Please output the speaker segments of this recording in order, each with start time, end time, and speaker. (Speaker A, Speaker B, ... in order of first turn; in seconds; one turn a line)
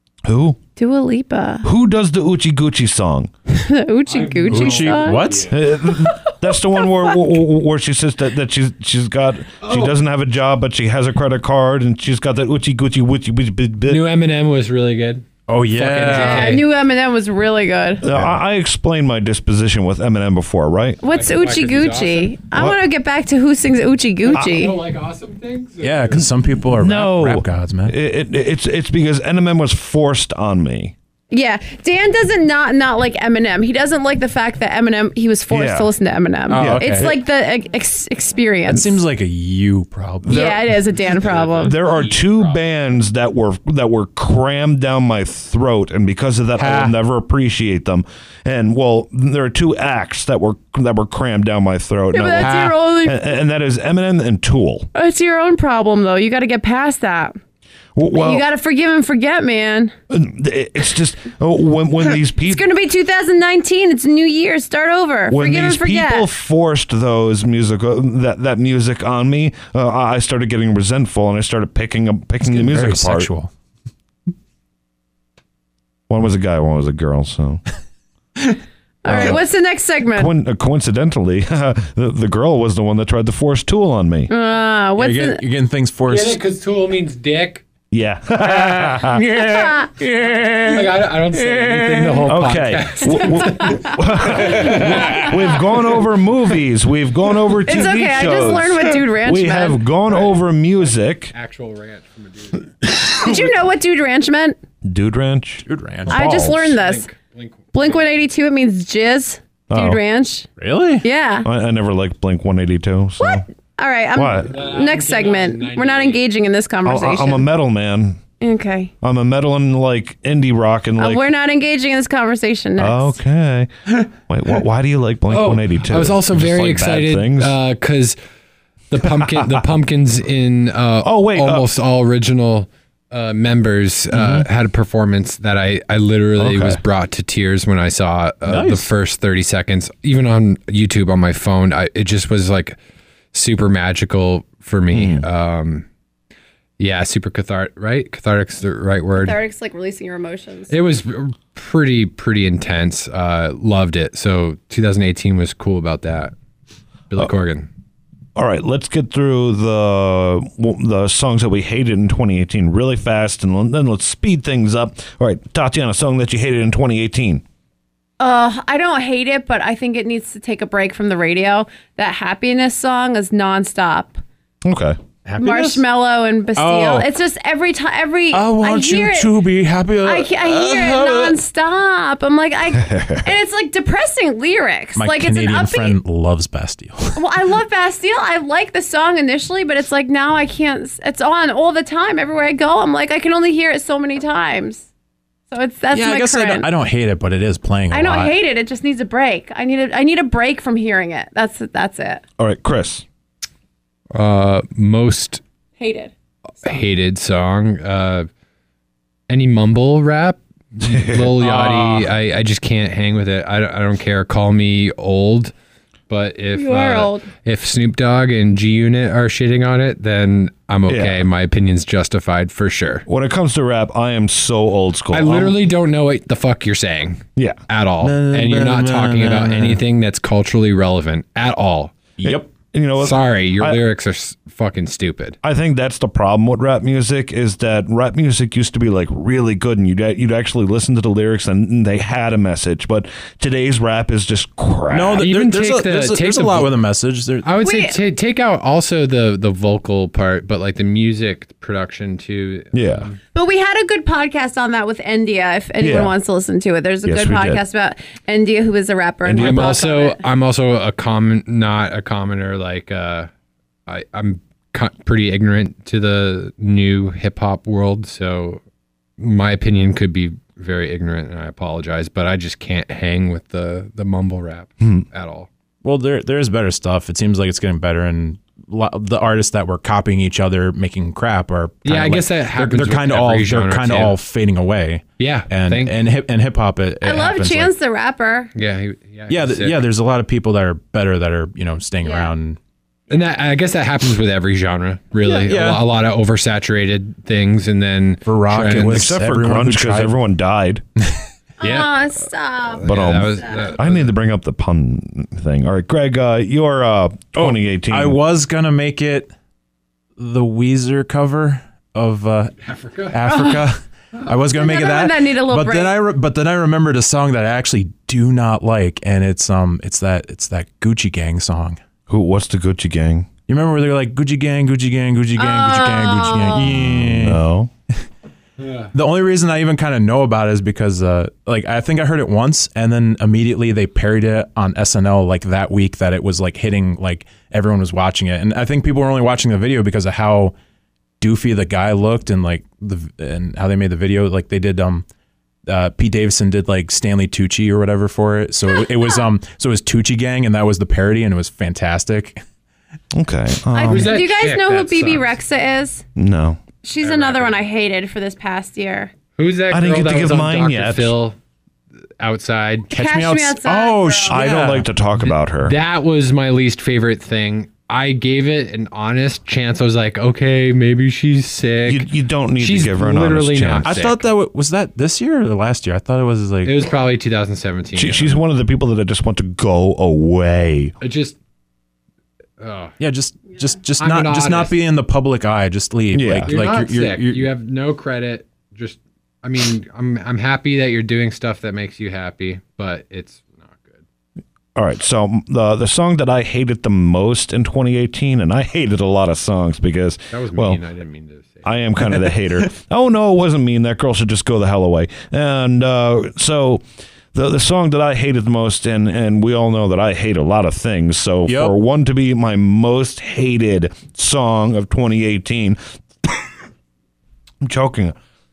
Speaker A: 0.3-0.6
Speaker B: 0.8-1.7
Speaker A: 1.6-3.3
Speaker B: 3.5-7.2
Speaker C: 4.1-5.6
Speaker D: 4.5-5.6
Speaker A: 5.5-14.1
Speaker C: 9.6-9.9
Speaker C: 13.9-16.7
Speaker D: 15.5-16.6
Speaker B: 16.1-18.0
Speaker A: 18.0-21.0
Speaker B: 21.0-24.8
Speaker C: 21.0-22.4
Speaker C: 24.2-26.3
Speaker D: 25.8-27.9
Speaker A: 26.7-30.9
Speaker B: 31.3-39.0
Speaker A: 35.5-35.9
Speaker D: 36.5-37.1
Speaker A: 36.5-37.2
Speaker D: 38.7-40.6
Speaker A: 40.2-40.6
Speaker B: 40.3-41.8
Speaker C: 41.2-42.6
Speaker A: 41.6-54.9
Speaker D: 46.6-47.0
Speaker B: 52.1-53.2
Speaker D: 52.4-52.8
Speaker B: 55.0-57.4
Speaker A: 58.0-58.4
Speaker B: 58.1-59.9
Speaker A: 60.1-62.6
Speaker B: 62.5-66.3
Speaker A: 65.3-73.3
Speaker D: 72.4-73.5
Speaker A: 76.1-77.6
Speaker B: 79.0-80.3
Speaker A: 79.1-79.4
Speaker A: 80.2-84.3
Speaker B: 84.3-85.4
Speaker D: 85.0-86.4
Speaker C: 86.1-87.6
Speaker A: 87.9-89.2
Speaker D: 88.4-92.3
Speaker B: 89.4-89.9
Speaker C: 90.6-95.3
Speaker A: 92.3-101.3
Speaker B: 93.3-94.0
Speaker D: 94.5-95.3
Speaker B: 97.7-99.8
Speaker C: 100.1-103.0
Speaker B: 103.1-104.6
Speaker A: 104.8-106.8
Speaker D: 105.7-106.2
Speaker B: 106.1-107.1
Speaker C: 106.6-108.1
Speaker B: 107.7-110.5
Speaker A: 109.7-110.0
Speaker D: 110.6-111.0
Speaker B: 111.0-111.5
Speaker A: 111.4-113.5
Speaker B: 113.2-117.5
Speaker A: 114.2-114.5
Speaker C: 114.4-116.2
Speaker A: 116.8-118.2
Speaker B: 118.4-118.9
Speaker A: 119.0-121.2
Speaker B: 121.0-123.2
Speaker A: 122.8-127.6
Speaker C: 125.3-128.2
Speaker C: 128.9-142.8
Speaker A: 129.3-129.6
Speaker A: 131.0-131.7
Speaker A: 134.2-134.4
Speaker A: 136.4-136.8
Speaker D: 138.5-138.9
Speaker C: 143.3-145.9
Speaker A: 144.9-145.3
Speaker C: 146.8-149.4
Speaker B: 149.2-150.8
Speaker C: 150.7-156.3
Speaker C: 157.1-157.7
Speaker A: 158.4-167.4
Speaker B: 168.2-174.2
Speaker A: 174.7-175.0
Speaker D: 175.3-175.8
Speaker B: 175.4-179.3
Speaker D: 176.6-177.1
Speaker D: 178.3-181.4
Speaker B: 180.0-186.0
Speaker A: 182.9-183.2
Speaker D: 185.0-187.2
Speaker B: 187.2-194.9
Speaker B: 195.5-196.7
Speaker D: 195.9-198.3
Speaker B: 197.9-202.2
Speaker A: 202.4-203.1
Speaker C: 204.1-205.4
Speaker B: 205.8-206.1
Speaker C: 206.6-208.3
Speaker C: 209.3-215.5
Speaker A: 210.8-211.3
Speaker D: 211.4-212.1
Speaker C: 216.1-223.1
Speaker B: 216.6-217.3
Speaker A: 220.9-221.3
Speaker A: 223.1-225.6
Speaker C: 225.1-232.1
Speaker D: 228.0-229.8
Speaker D: 232.2-232.5
Speaker A: 232.2-233.8
Speaker C: 233.0-235.4
Speaker A: 235.4-245.3
Speaker D: 244.9-247.5
Speaker C: 245.2-246.8
Speaker C: 247.4-253.2
Speaker B: 247.6-248.0
Speaker A: 252.7-253.1
Speaker B: 253.3-260.2
Speaker A: 255.8-256.1
Speaker A: 257.1-257.6
Speaker A: 259.2-259.8
Speaker C: 259.4-263.3
Speaker C: 263.9-268.6
Speaker C: 269.2-275.5
Speaker D: 275.8-287.7
Speaker C: 281.9-284.2
Speaker C: 285.2-285.9
Speaker B: 287.0-288.5
Speaker C: 288.6-289.8
Speaker D: 289.3-292.6
Speaker B: 292.0-292.3
Speaker C: 293.1-299.1
Speaker D: 295.2-295.8
Speaker D: 298.3-300.1
Speaker A: 298.8-300.8
Speaker B: 301.6-303.8
Speaker C: 301.6-301.9
Speaker C: 302.7-304.1
Speaker A: 302.9-308.2
Speaker D: 307.4-309.3
Speaker D: 310.2-321.8
Speaker C: 312.6-313.2
Speaker B: 313.3-313.6
Speaker B: 314.5-315.9
Speaker A: 322.1-323.3
Speaker D: 323.5-327.4
Speaker B: 325.4-326.9
Speaker A: 326.8-327.7
Speaker C: 328.6-328.9
Speaker D: 328.9-340.6
Speaker D: 341.2-345.1
Speaker D: 345.7-352.4
Speaker A: 353.1-354.2
Speaker B: 353.7-356.0
Speaker C: 353.9-355.4
Speaker A: 356.2-356.6
Speaker B: 356.8-359.1
Speaker C: 357.0-357.5
Speaker C: 359.4-361.4
Speaker A: 359.7-361.1
Speaker C: 362.2-362.9
Speaker B: 362.9-364.4
Speaker D: 362.9-364.9
Speaker A: 364.3-365.8
Speaker C: 365.6-374.2
Speaker A: 371.9-373.9
Speaker D: 373.9-376.9
Speaker C: 376.6-378.4
Speaker A: 377.9-380.9
Speaker C: 381.0-381.4
Speaker C: 382.6-382.9
Speaker D: 383.0-387.5
Speaker C: 384.0-384.8
Speaker A: 386.1-386.5
Speaker C: 386.5-394.1
Speaker A: 394.8-400.8
Speaker C: 400.3-401.7
Speaker A: 401.6-406.8
Speaker A: 407.3-415.8
Speaker D: 411.5-411.7
Speaker A: 417.6-418.2